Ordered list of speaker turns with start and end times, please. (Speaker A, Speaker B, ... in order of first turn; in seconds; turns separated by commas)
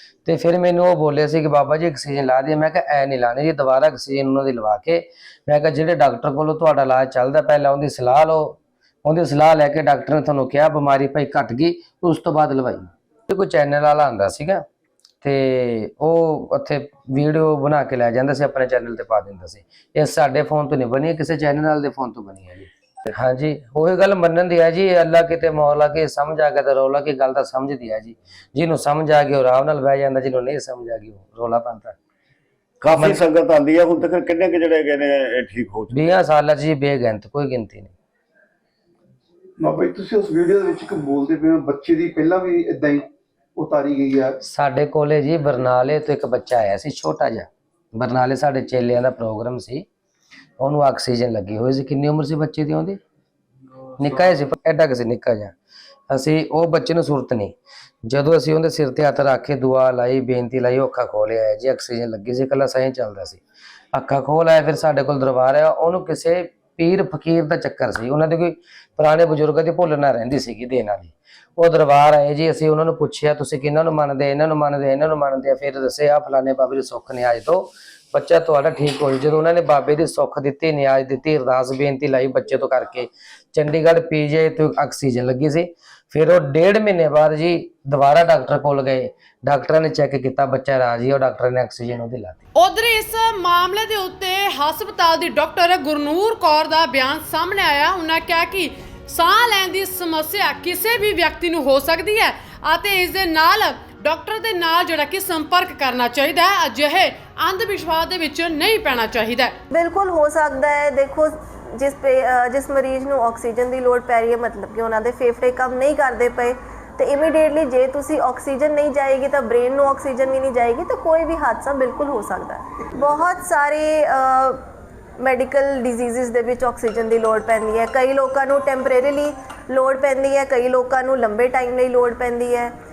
Speaker A: 0.2-14.6, Speaker A: 15.2-32.0, Speaker B: 32.8-36.0, Speaker A: 32.9-33.2, Speaker A: 35.9-37.9, Speaker C: 39.6-44.4, Speaker A: 44.4-49.8, Speaker A: 50.6-53.0, Speaker A: 54.0-55.5, Speaker A: 56.1-63.4, Speaker A: 63.9-92.4, Speaker D: 92.6-109.6, Speaker E: 109.7-124.6, Speaker E: 125.2-132.7